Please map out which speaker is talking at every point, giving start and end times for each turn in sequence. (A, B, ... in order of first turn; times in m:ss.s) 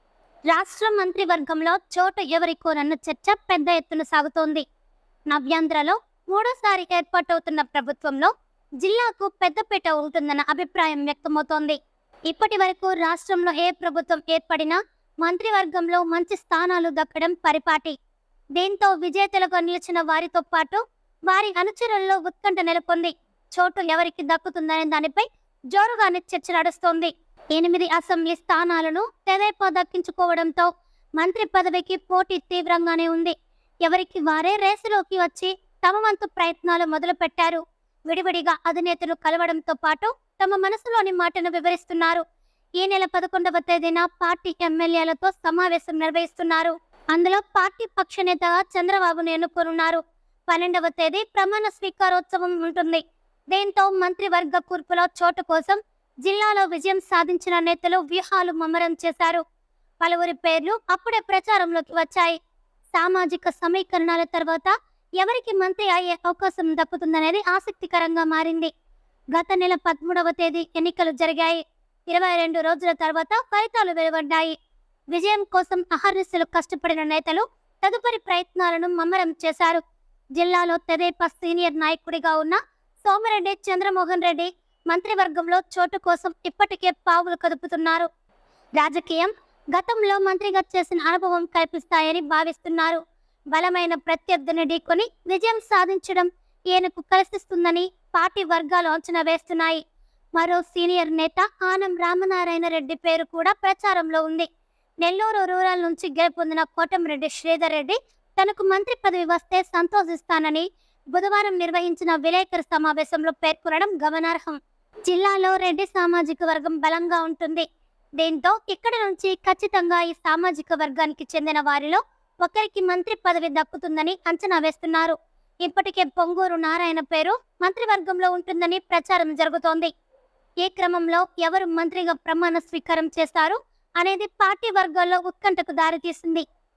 0:00.5-0:04.6 A
0:05.3-0:11.8 A
0:12.3-0:17.9 A
0:18.6-0:42.2 A
0:42.8-0:59.4 A
1:00.0-1:02.4 A
1:02.9-1:08.7 A
1:09.3-1:14.6 A
1:15.1-1:19.8 A
1:20.4-1:28.1 A
1:28.8-1:33.0 A
1:33.5-1:39.8 A
1:40.4-1:44.5 A
1:45.0-1:57.6 A
1:58.2-2:09.9 A
2:10.6-2:16.4 A